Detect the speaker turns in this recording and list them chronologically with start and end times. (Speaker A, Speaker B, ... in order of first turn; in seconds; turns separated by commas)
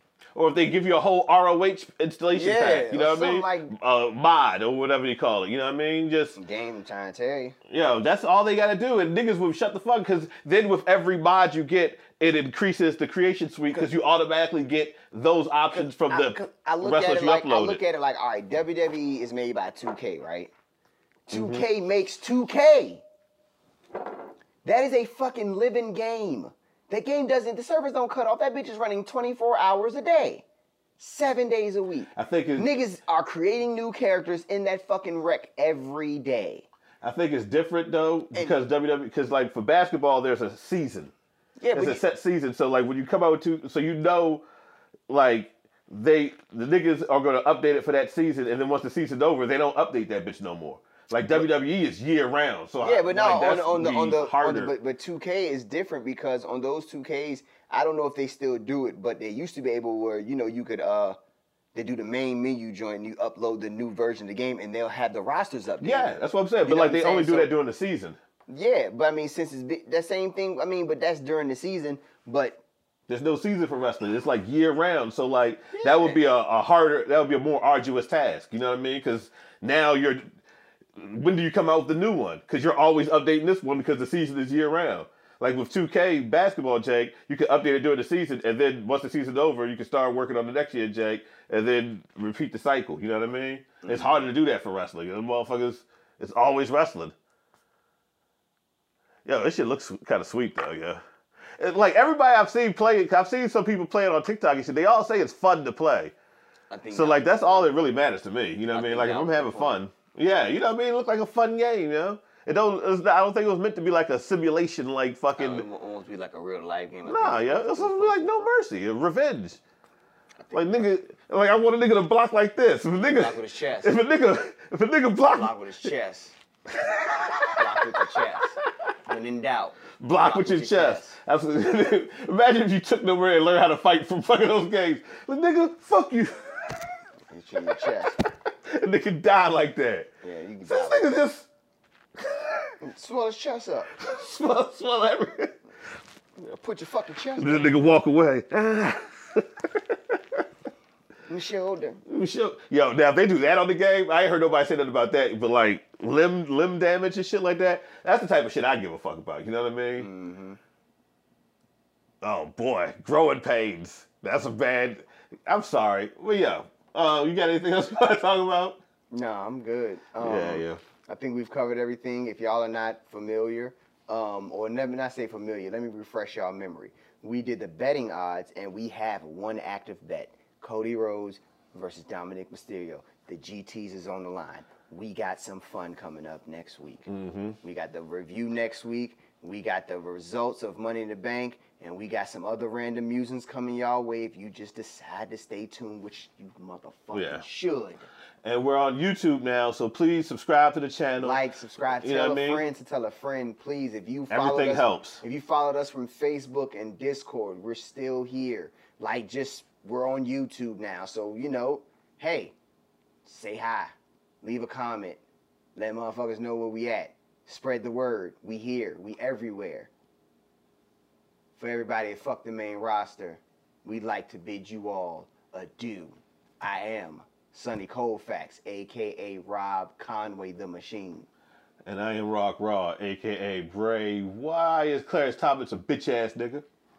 Speaker A: 0.3-6.4, Speaker B: 2.3-3.7, Speaker B: 6.4-7.6, Speaker A: 7.7-17.8, Speaker B: 15.7-20.5, Speaker B: 21.3-23.1, Speaker A: 21.3-21.6, Speaker B: 24.6-30.4, Speaker B: 31.0-36.7, Speaker A: 32.1-32.7, Speaker A: 37.0-41.1, Speaker B: 41.6-42.0, Speaker A: 41.7-44.5, Speaker A: 45.1-54.7, Speaker B: 52.8-61.2, Speaker B: 61.7-67.5, Speaker A: 65.8-68.2, Speaker B: 68.5-72.6, Speaker A: 73.1-80.2, Speaker B: 75.7-76.2, Speaker A: 81.0-97.2, Speaker B: 93.8-94.3, Speaker A: 99.2-101.0, Speaker A: 101.6-106.1, Speaker B: 106.7-107.8, Speaker A: 106.9-115.7, Speaker B: 108.7-109.8, Speaker B: 115.4-118.5, Speaker A: 117.1-119.6, Speaker B: 120.5-120.7, Speaker A: 120.5-125.5, Speaker B: 123.0-124.0, Speaker B: 125.3-126.4, Speaker A: 126.7-128.7, Speaker B: 127.5-131.2, Speaker A: 130.0-136.8, Speaker B: 137.3-138.2, Speaker A: 137.7-140.1, Speaker B: 140.2-141.0, Speaker A: 140.7-141.5, Speaker A: 142.2-142.7, Speaker B: 142.8-143.9, Speaker A: 143.9-145.6, Speaker B: 146.4-147.8, Speaker A: 147.4-150.4, Speaker B: 151.3-152.0, Speaker A: 152.1-160.1, Speaker B: 160.0-160.6, Speaker A: 162.2-168.8, Speaker B: 169.1-187.1, Speaker A: 170.2-170.8, Speaker A: 187.1-187.6, Speaker B: 187.6-198.1, Speaker A: 197.1-197.4, Speaker A: 198.4-201.4, Speaker B: 201.2-212.6, Speaker A: 202.0-202.6, Speaker A: 204.3-205.2, Speaker B: 213.2-215.2, Speaker B: 215.8-219.9, Speaker B: 221.6-231.3, Speaker A: 231.8-236.7